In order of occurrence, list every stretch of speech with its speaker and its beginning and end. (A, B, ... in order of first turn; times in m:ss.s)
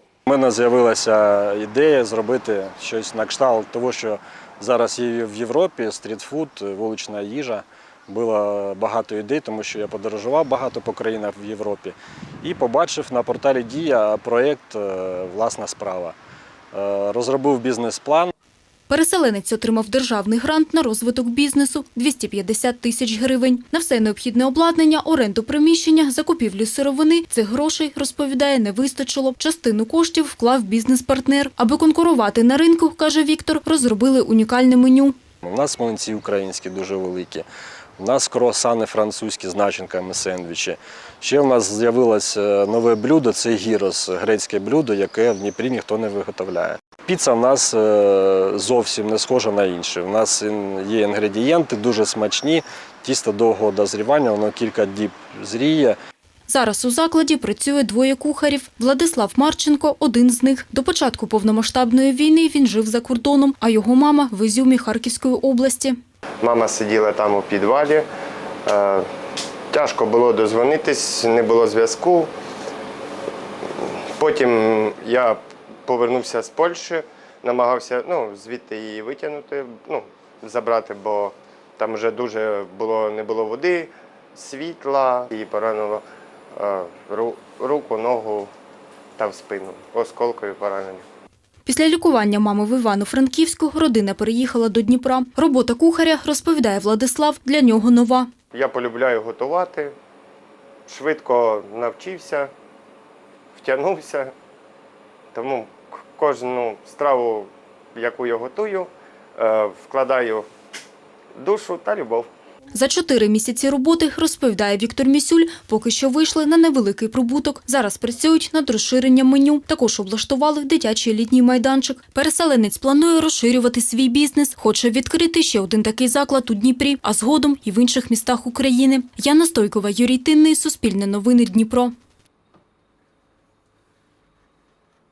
0:00.3-0:16.2 A
0:16.7-0:18.3 A
0:18.9-0:35.2 B
0:35.4-0:37.5 A
0:38.0-0:56.0 A
0:56.5-1:06.0 B
1:06.4-1:08.1 C
1:08.7-1:09.1 C
1:09.7-1:12.3 C
1:13.8-1:28.5 C
1:29.2-1:31.0 C
1:31.7-1:38.3 B
1:38.5-1:39.9 C
1:40.9-1:42.5 C
1:43.6-1:44.3 C
1:45.3-1:50.5 C
1:51.4-1:52.3 C
1:52.7-2:11.9 B